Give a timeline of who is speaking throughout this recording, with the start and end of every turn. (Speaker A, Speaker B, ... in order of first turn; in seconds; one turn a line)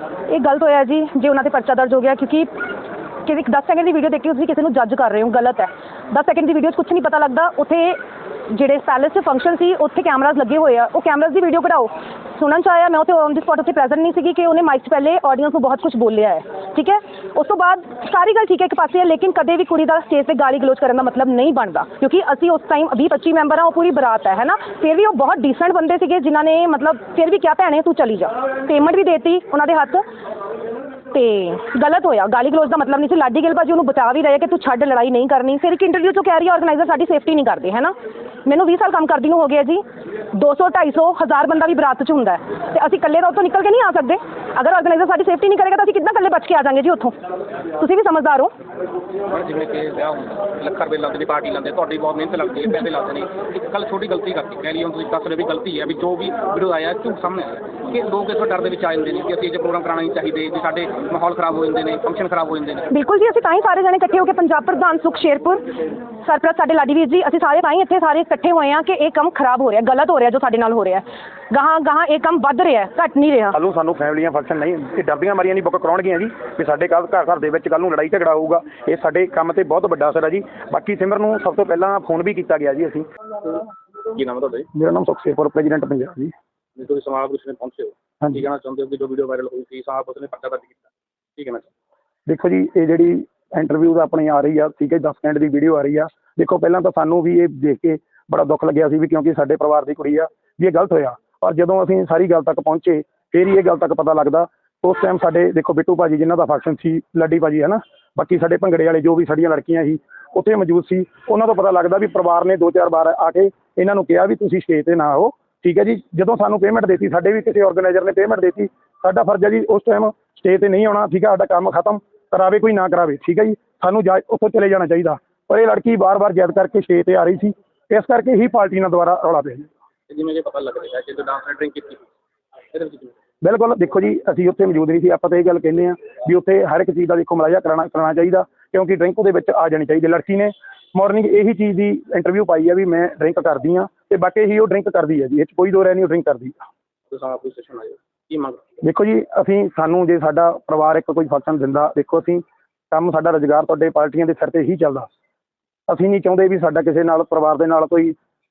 Speaker A: 0.3-2.5
Speaker A: 3.2-30.0
Speaker A: 31.1-37.9
Speaker A: 38.5-47.1
Speaker A: 47.8-48.5
Speaker B: 49.3-62.9
Speaker A: 62.9-73.6
Speaker C: 73.5-83.0
Speaker B: 84.1-84.7
Speaker C: 84.7-86.3
Speaker B: 86.8-90.8
Speaker B: 91.4-91.7
Speaker C: 92.3-129.7
Speaker B: 130.1-132.1
Speaker B: 132.7-133.1
Speaker C: 133.4-146.6
Speaker B: 147.1-148.6
Speaker C: 148.8-155.1
Speaker C: 155.9-158.2